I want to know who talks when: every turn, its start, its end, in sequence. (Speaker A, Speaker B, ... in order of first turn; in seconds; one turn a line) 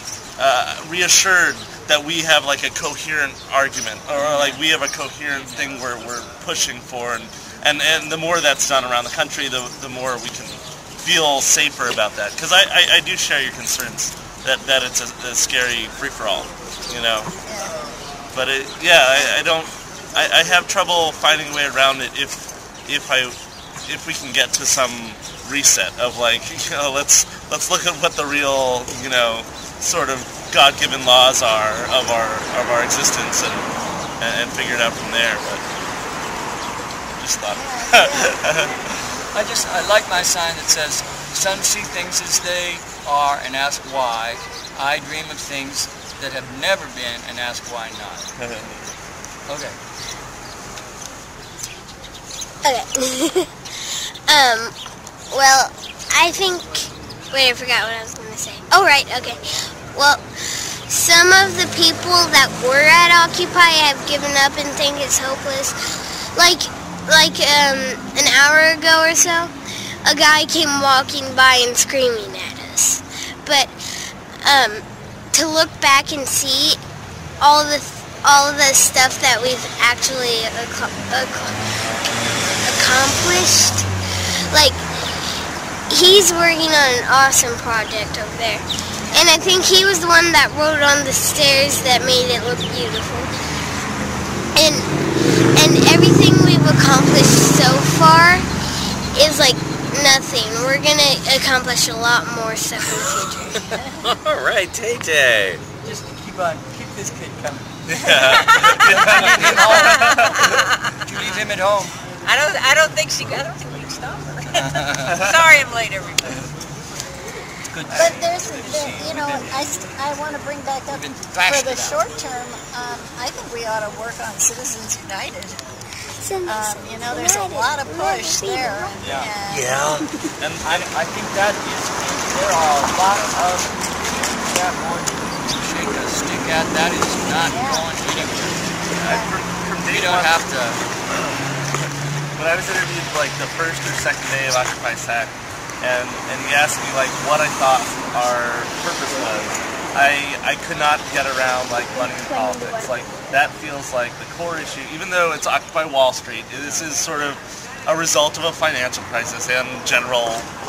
Speaker A: 0.4-17.3
Speaker B: 17.4-17.8
Speaker A: 18.3-23.3
Speaker A: 23.9-33.7
Speaker A: 34.2-35.6
Speaker A: 37.2-38.8
Speaker B: 37.5-38.7
Speaker C: 39.3-48.2
Speaker C: 49.5-49.8
Speaker D: 52.6-53.5
Speaker D: 54.3-54.7
Speaker D: 55.3-59.4
Speaker D: 59.9-60.2
Speaker D: 60.9-65.8
Speaker D: 66.3-69.5
Speaker D: 70.0-73.7
Speaker D: 74.4-76.8
Speaker D: 77.4-81.5
Speaker D: 82.6-83.9
Speaker D: 84.5-84.8
Speaker D: 85.9-93.3
Speaker D: 94.5-94.9
Speaker D: 95.5-98.5
Speaker D: 99.1-103.6
Speaker B: 102.8-104.0
Speaker E: 104.0-105.6
Speaker C: 105.8-107.7
Speaker A: 107.9-109.5
Speaker F: 108.2-110.9
Speaker C: 109.0-110.3
Speaker C: 111.0-111.9
Speaker F: 112.2-116.5
Speaker C: 114.5-115.2
Speaker C: 117.7-119.5
Speaker B: 117.9-125.6
Speaker C: 120.9-122.0
Speaker D: 126.2-128.6
Speaker B: 126.4-129.8
Speaker E: 129.6-129.9
Speaker A: 130.4-130.9
Speaker C: 130.6-138.6
Speaker B: 137.4-137.9
Speaker A: 138.9-140.4
Speaker B: 138.9-139.4
Speaker C: 139.8-140.8
Speaker A: 142.4-160.5